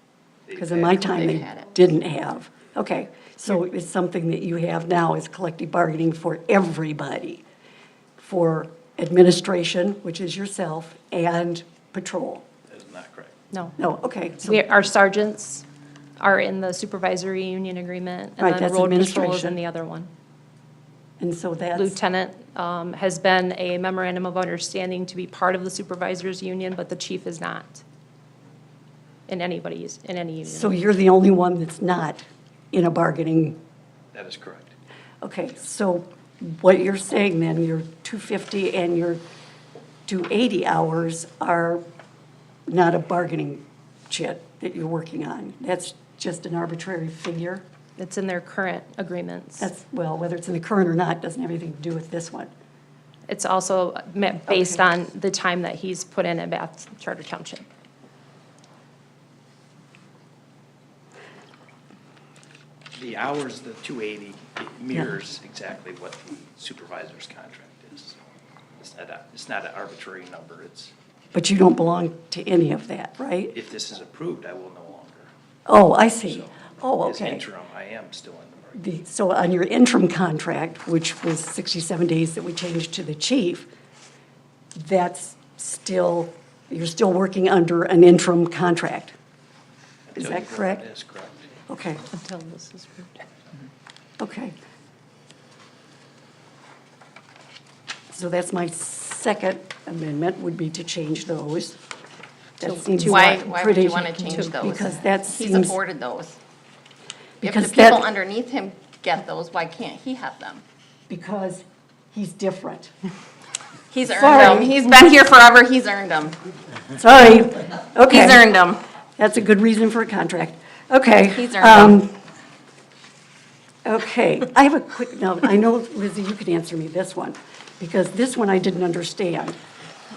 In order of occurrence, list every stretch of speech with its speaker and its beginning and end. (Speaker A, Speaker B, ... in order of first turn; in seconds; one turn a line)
Speaker A: 0.5-1.0
Speaker B: 0.6-7.4
Speaker C: 1.0-1.7
Speaker B: 8.2-12.4
Speaker A: 12.7-13.3
Speaker D: 13.5-13.8
Speaker B: 13.8-14.6
Speaker D: 14.4-15.6
Speaker D: 16.2-20.1
Speaker B: 18.4-19.6
Speaker B: 21.2-21.9
Speaker D: 21.8-27.8
Speaker D: 29.3-30.8
Speaker B: 30.5-33.6
Speaker A: 34.1-34.7
Speaker B: 35.2-39.2
Speaker B: 40.1-41.8
Speaker B: 42.7-47.6
Speaker D: 48.0-49.7
Speaker B: 49.6-52.5
Speaker D: 53.3-57.6
Speaker B: 54.5-54.8
Speaker A: 62.9-68.2
Speaker A: 68.8-70.9
Speaker B: 71.3-73.5
Speaker A: 73.5-75.3
Speaker B: 75.7-77.5
Speaker A: 76.2-78.8
Speaker B: 78.7-83.7
Speaker B: 84.8-89.1
Speaker A: 90.1-91.6
Speaker B: 90.2-90.8
Speaker B: 91.7-92.0
Speaker D: 92.1-93.2
Speaker B: 94.2-94.5
Speaker B: 98.1-101.8
Speaker B: 102.6-105.8
Speaker D: 102.6-103.5
Speaker C: 103.0-106.4
Speaker D: 104.2-104.7
Speaker B: 107.4-108.1
Speaker C: 107.4-110.6
Speaker B: 111.1-112.9
Speaker C: 113.9-116.4
Speaker B: 114.1-114.7
Speaker B: 117.0-118.5
Speaker C: 118.0-118.8
Speaker B: 119.2-122.2
Speaker C: 121.3-121.9
Speaker B: 123.8-129.6